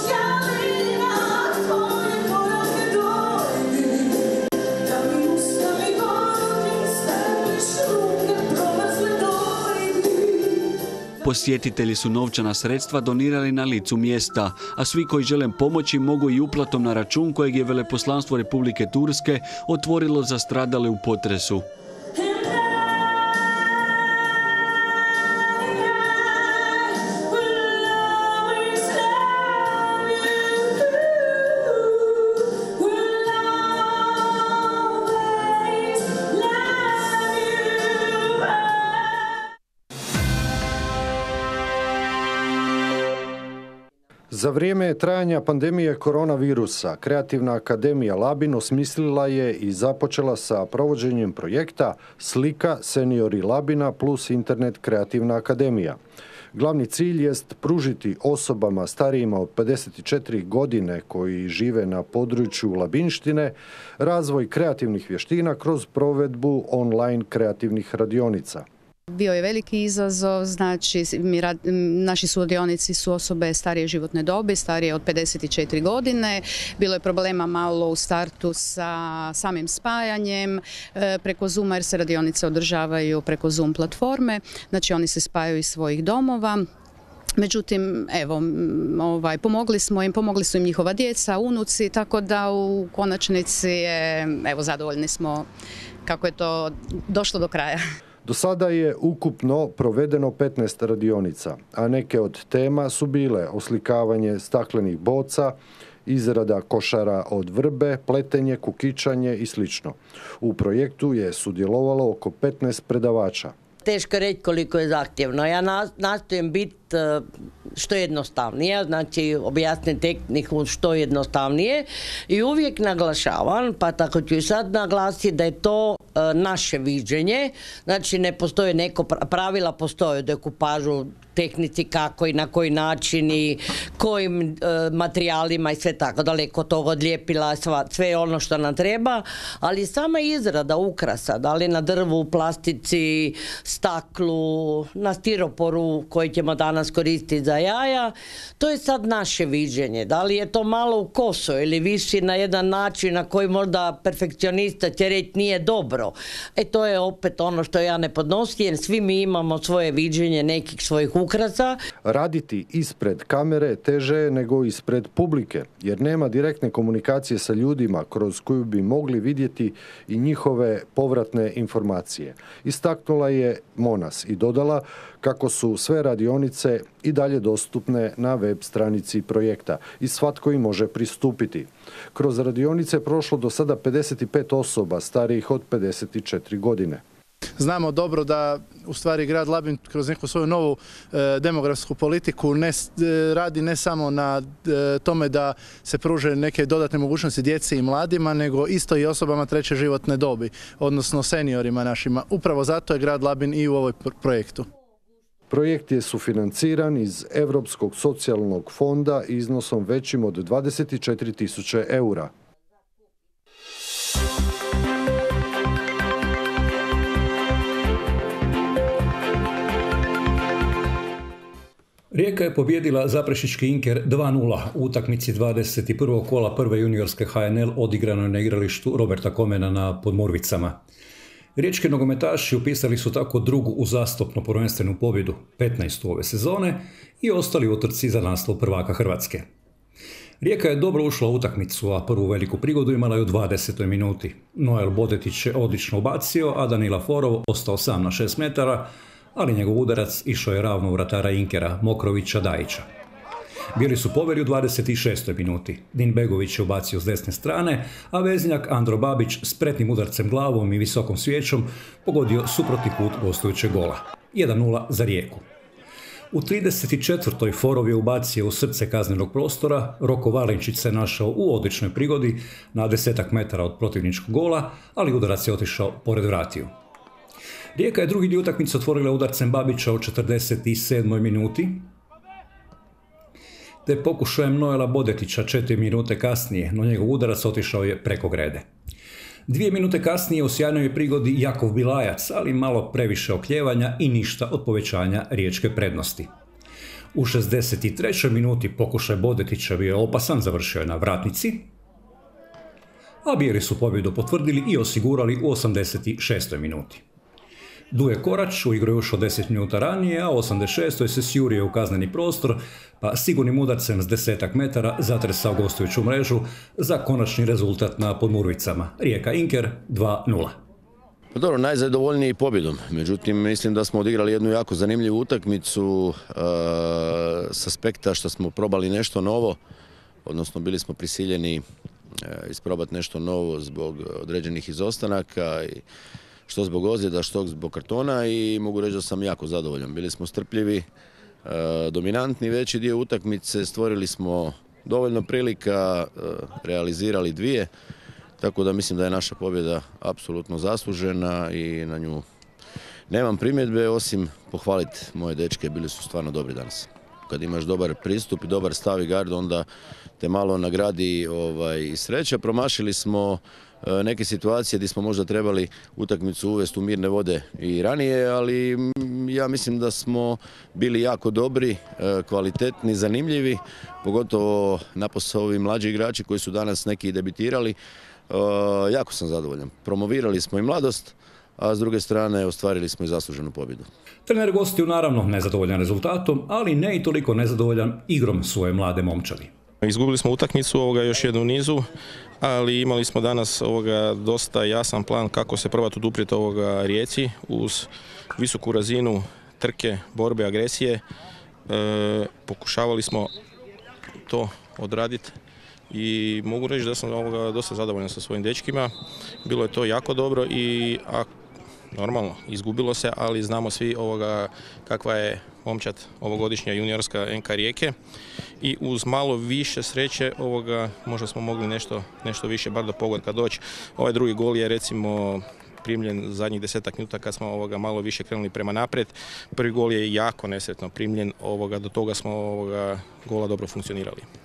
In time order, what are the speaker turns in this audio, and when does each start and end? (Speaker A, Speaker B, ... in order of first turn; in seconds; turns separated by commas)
Speaker A: 11.2-21.6, Speaker B: 44.3-56.0, Speaker B: 56.5-68.6, Speaker C: 69.2-78.7, Speaker D: 70.9-72.3, Speaker D: 76.1-79.4, Speaker C: 79.4-80.4, Speaker D: 80.0-81.5, Speaker C: 81.2-86.5, Speaker C: 87.4-88.3, Speaker D: 87.6-89.6, Speaker C: 89.1-92.1, Speaker D: 90.2-95.4, Speaker C: 94.9-95.2, Speaker D: 96.0-97.8, Speaker B: 98.2-113.5, Speaker E: 113.8-161.8, Speaker B: 162.1-187.0, Speaker F: 187.6-204.7, Speaker B: 205.5-212.3, Speaker G: 222.1-230.8, Speaker G: 231.6-239.4, Speaker G: 240.4-252.8, Speaker G: 253.7-265.4, Speaker G: 266.3-276.7, Speaker G: 277.7-281.9, Speaker G: 283.8-288.6, Speaker G: 289.5-296.3, Speaker G: 297.1-301.7, Speaker G: 303.2-307.0, Speaker G: 307.9-320.6, Speaker H: 321.3-329.6, Speaker H: 330.2-331.6, Speaker H: 332.2-335.8, Speaker H: 336.5-340.8, Speaker H: 341.4-347.7, Speaker H: 348.4-352.2, Speaker H: 353.1-359.6, Speaker H: 360.2-377.8, Speaker H: 378.3-383.9, Speaker G: 384.3-389.5, Speaker D: 389.8-391.9, Speaker D: 392.4-401.0, Speaker D: 401.7-403.3, Speaker D: 404.2-405.4, Speaker D: 405.9-408.9, Speaker D: 409.4-411.3, Speaker D: 411.9-417.9, Speaker D: 418.6-434.2